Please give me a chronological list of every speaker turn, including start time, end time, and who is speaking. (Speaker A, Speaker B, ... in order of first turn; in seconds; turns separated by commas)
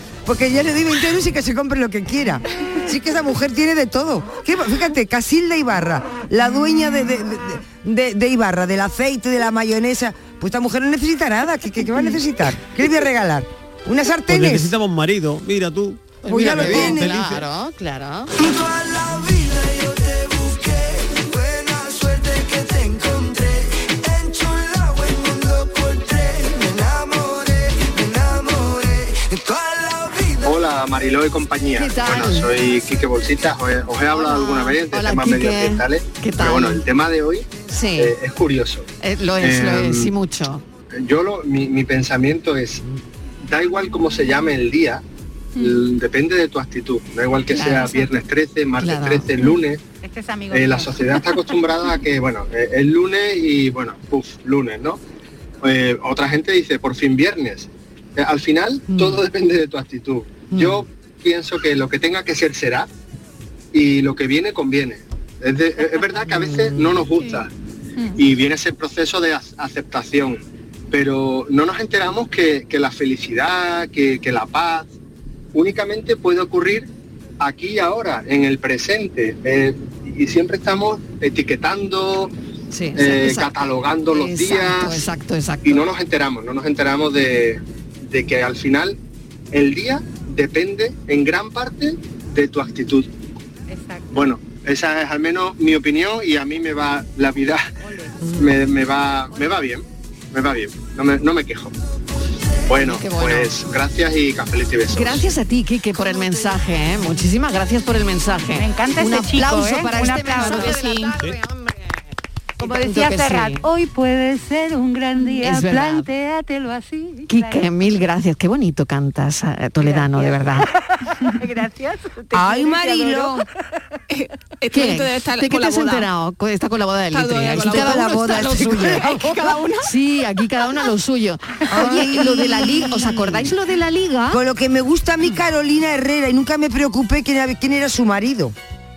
Speaker A: 0.2-14.7, Speaker B: 14.3-17.4, Speaker C: 16.2-18.4, Speaker A: 16.2-17.1, Speaker D: 30.4-38.9, Speaker C: 31.7-32.5, Speaker C: 34.1-36.8, Speaker C: 37.7-38.1, Speaker C: 39.0-40.6, Speaker D: 39.4-40.1, Speaker D: 41.0-42.8, Speaker D: 43.5-45.0, Speaker D: 45.6-49.8, Speaker C: 47.5-48.1, Speaker C: 48.8-49.5, Speaker E: 50.0-51.0, Speaker D: 50.5-55.0, Speaker D: 55.6-62.9, Speaker C: 58.9-59.2, Speaker C: 60.5-60.8, Speaker D: 63.7-67.5, Speaker D: 68.2-74.9, Speaker D: 75.5-76.9, Speaker D: 77.4-82.3, Speaker C: 82.7-85.9, Speaker D: 83.0-85.0, Speaker D: 85.6-89.0, Speaker D: 89.5-93.1, Speaker E: 93.7-94.1, Speaker D: 94.1-97.7, Speaker E: 97.8-98.1, Speaker D: 98.4-101.7, Speaker D: 102.7-105.2, Speaker C: 102.8-103.6, Speaker C: 104.9-111.8, Speaker E: 108.6-111.1, Speaker C: 112.6-113.6, Speaker E: 112.6-117.6, Speaker C: 115.4-116.0, Speaker C: 117.3-120.7, Speaker E: 119.8-123.4, Speaker A: 122.3-123.4, Speaker F: 124.1-126.0, Speaker C: 124.7-129.1, Speaker F: 127.1-129.9, Speaker A: 127.5-129.4, Speaker C: 129.8-134.4, Speaker A: 131.7-133.5, Speaker A: 134.3-138.5